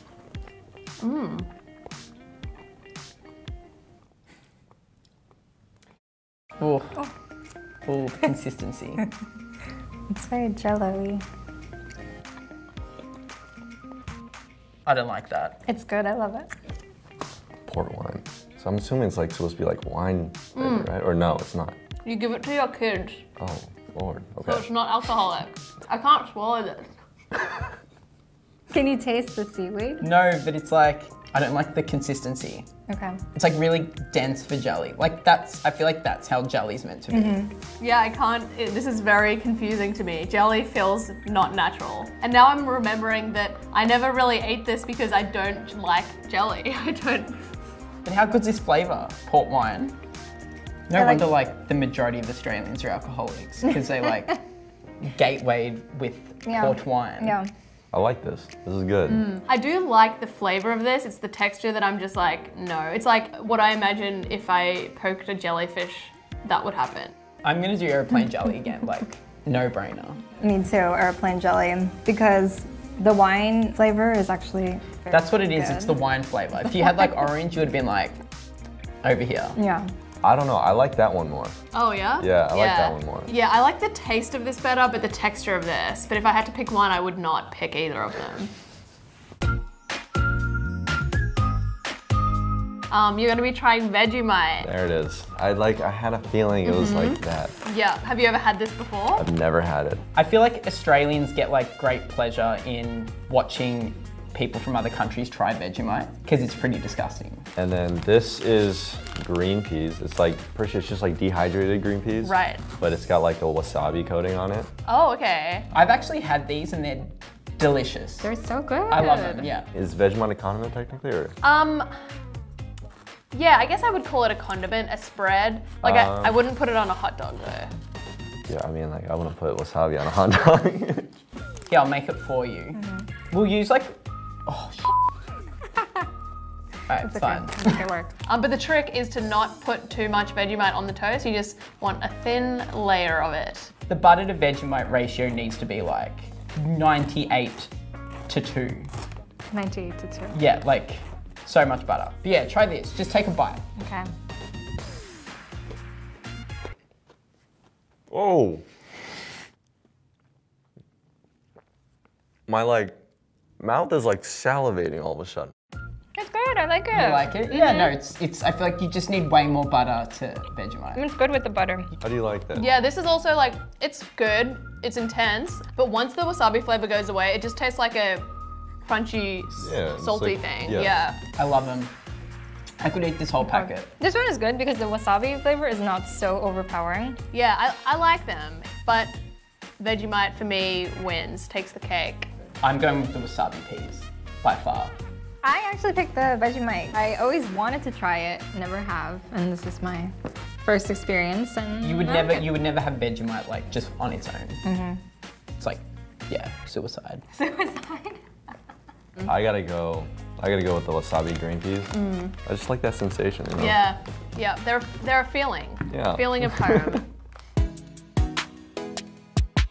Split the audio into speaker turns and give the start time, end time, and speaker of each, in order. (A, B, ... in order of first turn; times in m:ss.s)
0:01.0-0:01.5 A
0:06.6-0:07.0 B
0:07.9-0:09.0 B
0:10.1-0:11.2 C
0:14.9-0:15.6 B
0:15.7-0:16.5 C
0:17.7-0:21.8 D
0:20.6-0:20.9 A
0:22.0-0:23.3 A
0:23.4-0:24.7 D
0:24.4-0:26.9 A
0:28.7-0:30.1 C
0:30.0-0:32.7 B
0:32.9-0:33.2 C
0:33.3-0:37.4 B
0:37.1-0:37.5 C
0:37.8-0:47.4 A
0:48.0-0:50.0 B
0:50.9-0:54.4 B
0:50.9-0:51.3 C
0:55.0-0:57.4 B
0:56.4-0:57.5 C
0:57.9-0:59.3 D
0:59.1-1:07.1 A
1:07.4-1:10.2 B
1:10.4-1:16.0 C
1:15.1-1:18.2 B
1:19.0-1:19.6 B
1:19.6-1:19.9 C
1:20.2-1:21.5 D
1:21.7-1:28.5 A
1:22.2-1:23.3 D
1:32.9-1:34.7 A
1:34.6-1:37.5 D
1:36.6-1:39.3 A
1:39.2-1:40.0 D
1:40.2-1:47.5 B
1:47.6-1:54.7 D
1:52.2-1:52.6 A
1:54.8-1:55.7 A
1:55.7-1:58.3 B
1:58.2-1:59.5 C
1:58.9-1:59.7 B
1:59.7-2:01.4 D
2:01.4-2:01.9 A
2:03.3-2:07.7 A
2:05.8-2:06.4 D
2:08.5-2:11.1 D
2:11.7-2:14.9 B
2:12.7-2:13.1 C
2:16.9-2:17.8 B
2:17.0-2:18.1 C
2:18.3-2:23.7 A
2:23.9-2:27.7 B
2:28.3-2:28.9 B
2:29.5-2:30.4 C
2:30.3-2:33.6 B
2:33.8-2:34.1 C
2:38.1-2:38.6 D
2:42.5-2:43.0 D
2:43.6-2:45.5 D
2:46.2-2:47.4 C
2:46.9-2:51.0 B
2:51.0-2:51.9 C
2:52.0-2:52.7 D
2:52.6-2:58.3 A
2:58.8-3:01.2 A
2:59.6-3:01.0 D
3:01.4-3:01.9 B
3:02.8-3:03.9 B
3:03.4-3:07.2 C
3:07.3-3:09.2 A
3:09.8-3:12.3 A
3:12.6-3:15.0 B
3:15.4-3:20.1 C
3:20.6-3:22.5 C
3:21.8-3:24.6 B
3:24.6-3:25.0 C
3:25.6-3:27.3 B
3:27.4-3:28.2 C
3:29.2-3:31.9 D
3:31.9-3:32.4 A
3:32.4-3:33.8 D
3:33.6-3:37.1 A
3:35.9-3:37.0 D